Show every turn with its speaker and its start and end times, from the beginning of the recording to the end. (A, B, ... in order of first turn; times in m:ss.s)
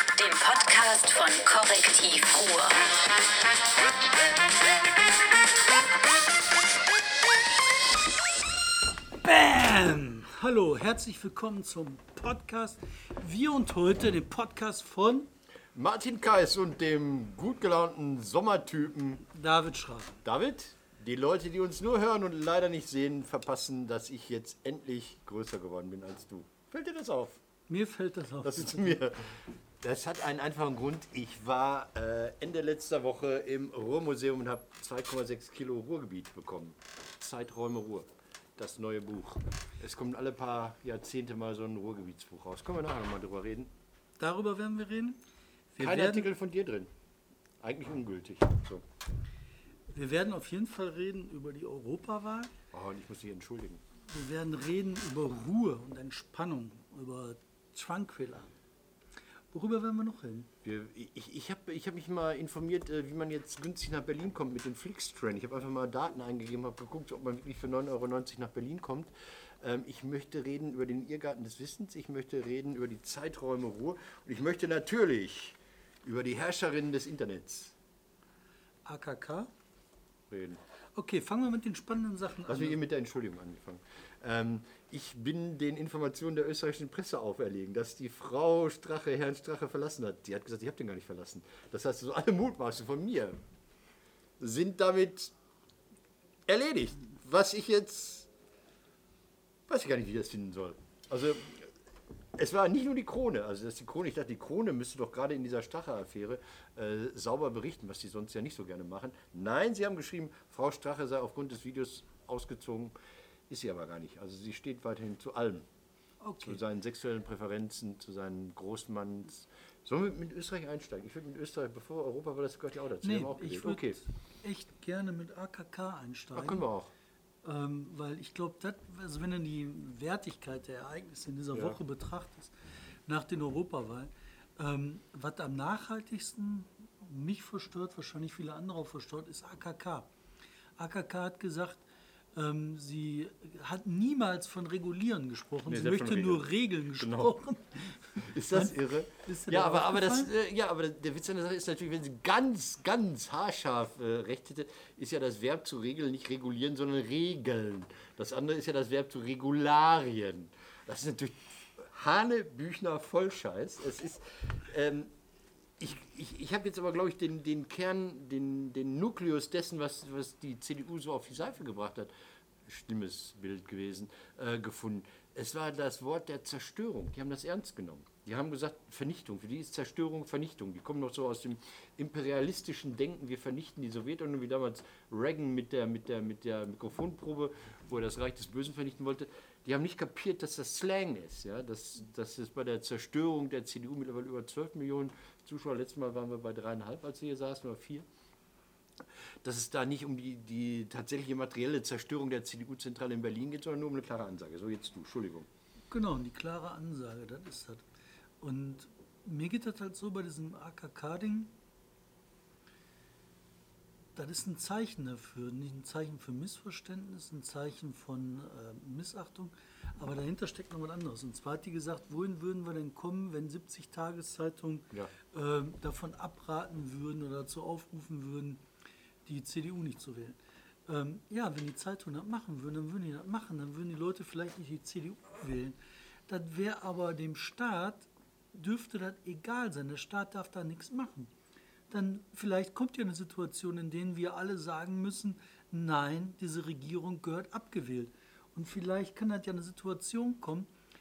0:00.2-0:02.8 A
0:09.2-0:15.3 B
0:15.7-0:19.2 C
0:19.3-0:20.2 B
0:20.2-0:27.4 C
0:27.7-0:29.0 B
0:28.4-0:43.7 C
0:44.2-0:45.2 B
0:45.7-0:46.3 B
0:45.8-0:46.9 C
0:47.6-0:48.9 C
0:49.9-0:52.5 B
0:52.7-0:53.8 C
0:54.1-0:58.5 B
0:59.5-1:00.5 B
1:00.6-1:09.1 C
1:09.6-1:17.8 C
1:18.9-1:19.5 B
1:20.3-1:20.6 C
1:21.0-1:22.8 B
1:22.4-1:33.4 C
1:34.4-1:35.3 C
1:36.5-1:38.3 C
1:39.7-1:41.7 C
1:42.3-1:52.9 C
1:53.5-1:55.7 C
1:56.2-1:56.6 B
1:56.4-2:04.0 C
2:03.0-2:06.7 B
2:06.3-2:06.9 C
2:07.4-2:12.5 B
2:13.0-2:20.1 B
2:20.8-2:21.8 B
2:22.3-2:30.3 B
2:25.7-2:27.4 C
2:28.1-2:45.1 C
2:45.8-2:52.1 C
2:52.6-3:18.1 C
3:19.4-3:25.5 C
3:25.9-3:27.8 B
3:28.4-3:31.5 B
3:34.2-3:48.6 B
3:49.2-3:55.8 B
3:56.3-4:01.3 B
4:01.9-4:10.7 B